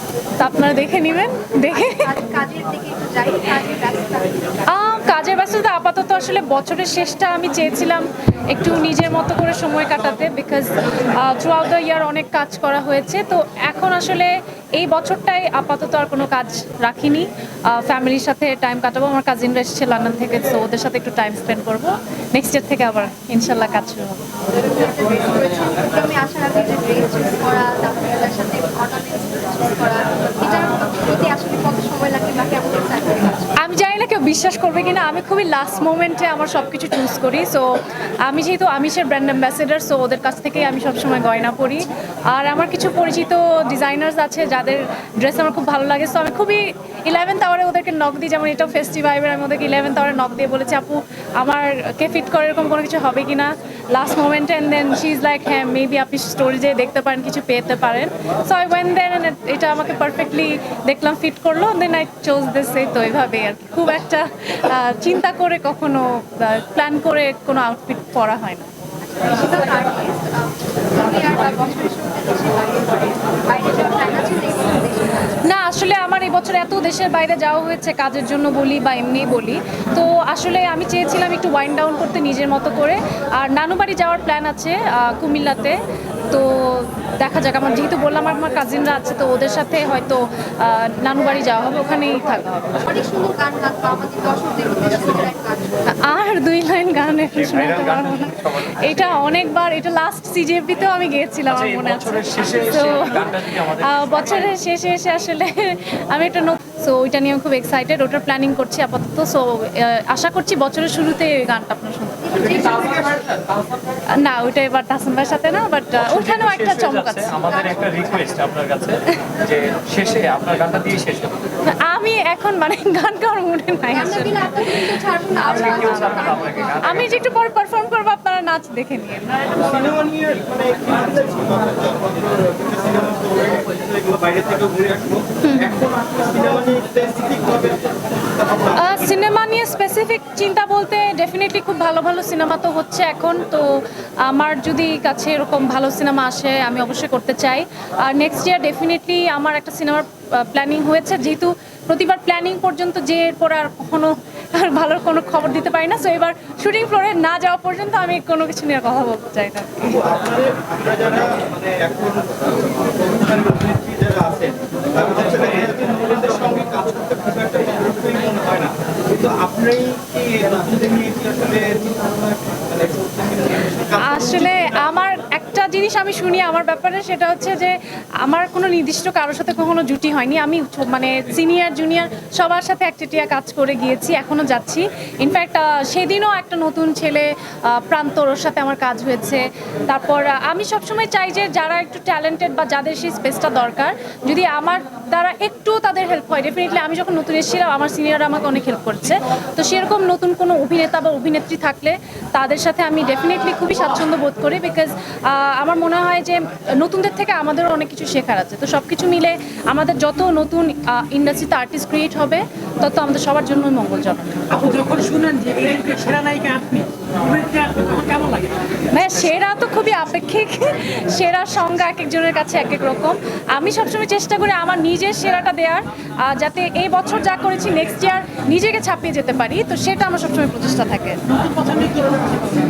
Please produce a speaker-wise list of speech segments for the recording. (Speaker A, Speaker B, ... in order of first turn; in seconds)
Speaker A: 0.4-2.1, 4.7-24.2, 33.6-68.7, 75.4-85.8, 86.3-92.5, 95.9-112.8, 114.1-117.4, 121.6-129.6, 135.4-135.8, 138.8-160.0, 174.0-214.7, 218.9-231.2
Speaker B: 1.7-4.7, 24.6-33.5, 69.0-75.5, 92.8-95.9, 112.3-113.2, 117.4-118.4, 123.9-126.9
Speaker C: 97.3-99.1, 101.5-104.5, 116.0-121.4, 125.5-127.1
Speaker D: 129.6-139.1, 159.9-174.9
Speaker E: 214.8-218.6, 231.6-232.6